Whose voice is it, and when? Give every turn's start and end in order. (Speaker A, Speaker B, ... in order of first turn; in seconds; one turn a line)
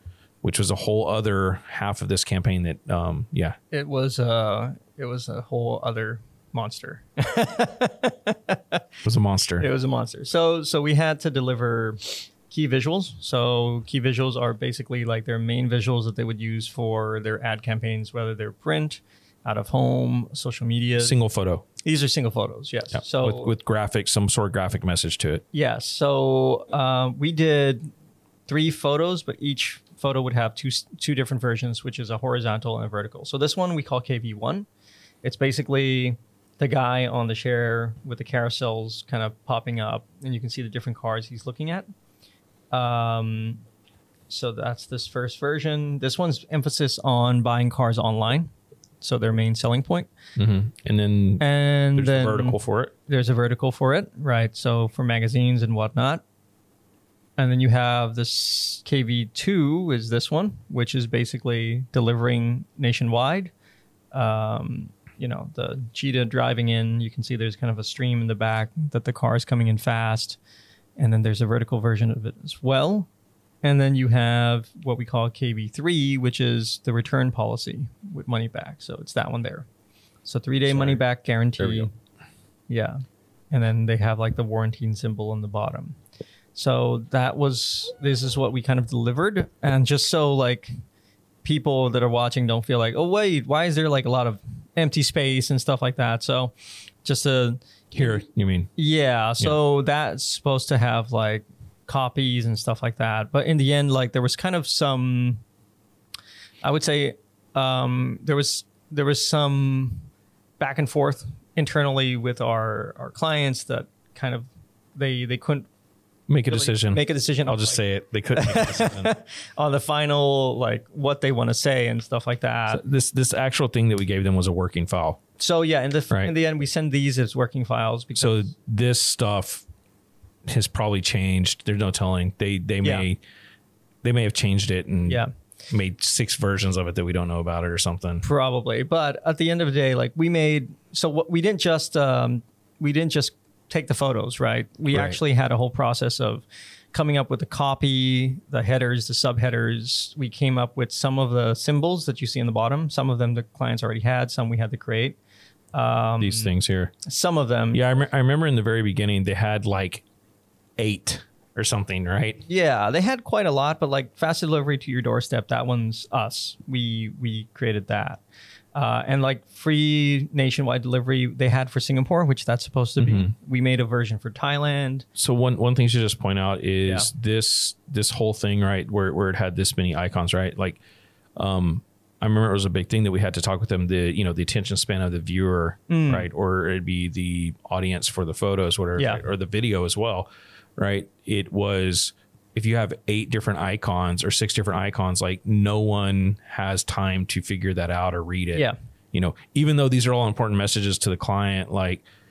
Speaker A: 0.4-3.6
Speaker B: 3.7-8.8
Speaker A: 9.0-9.7
Speaker B: 9.6-21.2
Speaker A: 21.0-21.7
Speaker B: 21.8-23.5
Speaker A: 22.9-25.4
Speaker B: 25.5-27.9
Speaker B: 28.5-34.7
Speaker B: 35.2-41.9
Speaker B: 42.7-43.6
Speaker B: 44.3-48.5
Speaker B: 49.0-50.1
Speaker A: 50.4-52.9
Speaker B: 51.4-52.6
Speaker B: 53.1-56.2
Speaker B: 57.4-63.5
Speaker B: 64.1-70.4
Speaker B: 71.0-73.1
Speaker B: 73.6-79.7
Speaker B: 80.2-81.9
Speaker A: 80.7-81.0
Speaker A: 81.6-81.9
Speaker B: 82.7-86.0
Speaker B: 86.5-90.7
Speaker B: 91.4-96.5
Speaker B: 97.0-98.2
Speaker A: 97.9-98.7
Speaker B: 98.8-105.4
Speaker B: 106.6-110.0
Speaker B: 110.6-115.7
Speaker A: 116.3-119.1
Speaker B: 116.5-117.8
Speaker B: 118.3-122.8
Speaker A: 122.7-125.2
Speaker B: 125.4-128.5
Speaker A: 128.2-129.7
Speaker A: 130.5-133.2
Speaker A: 134.0-138.2
Speaker B: 138.2-155.2
Speaker A: 144.9-145.2
Speaker B: 155.7-156.5
Speaker A: 156.2-156.9
Speaker B: 157.1-157.8
Speaker A: 157.7-160.1
Speaker A: 160.8-162.4
Speaker B: 162.5-168.2
Speaker B: 168.8-175.1
Speaker A: 173.0-173.3
Speaker A: 175.2-180.8
Speaker A: 181.4-202.0
Speaker B: 185.9-186.3
Speaker B: 189.0-189.2